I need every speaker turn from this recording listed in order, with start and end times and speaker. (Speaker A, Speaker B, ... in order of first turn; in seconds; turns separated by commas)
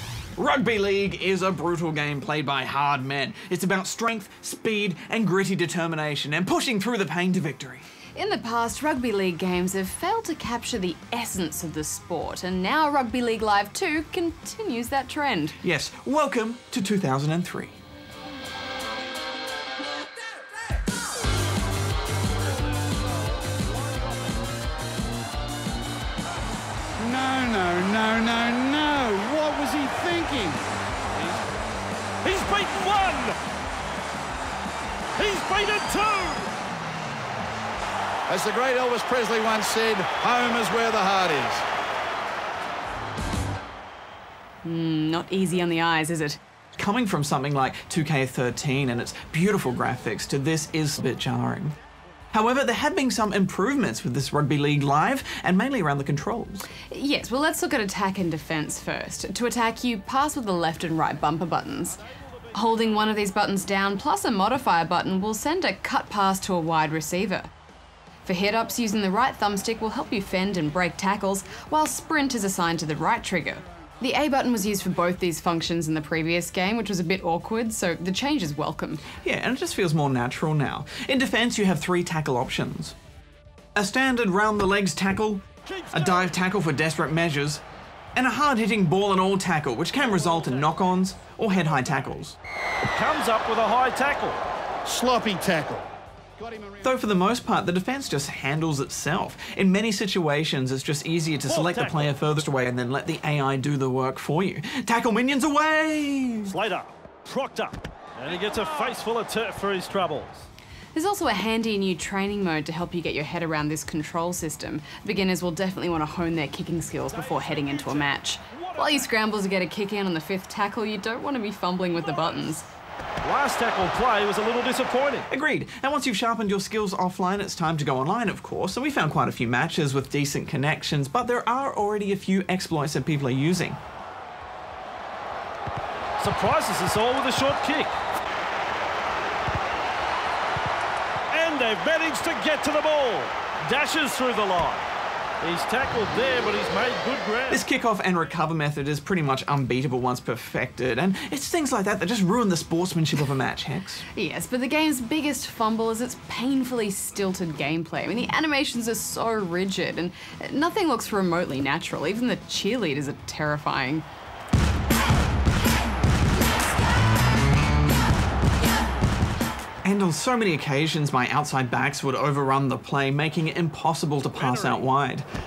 Speaker A: 0.4-7.8, Speaker B: 8.2-15.6, Speaker A: 15.6-17.8, Speaker C: 27.0-30.7, Speaker D: 32.2-33.4, Speaker D: 35.2-36.5, Speaker C: 38.3-41.6, Speaker B: 44.6-46.4, Speaker A: 46.8-51.8, Speaker A: 52.3-56.7, Speaker B: 56.9-62.0, Speaker B: 62.5-67.5, Speaker B: 68.2-79.1, Speaker A: 79.2-83.0, Speaker A: 83.8-87.6, Speaker D: 85.7-86.3, Speaker A: 88.2-92.4, Speaker D: 90.0-90.7, Speaker D: 92.9-94.4, Speaker C: 94.8-96.8, Speaker A: 96.8-106.5, Speaker D: 101.5-102.1, Speaker D: 106.5-110.5, Speaker B: 110.9-122.7, Speaker D: 117.1-119.1, Speaker D: 122.1-122.5, Speaker D: 123.2-125.3, Speaker A: 125.3-133.8, Speaker D: 136.2-137.9, Speaker D: 141.3-144.9, Speaker D: 145.4-147.6, Speaker A: 147.5-154.0, Speaker B: 154.2-164.1, Speaker A: 169.8-175.3, Speaker D: 174.3-174.9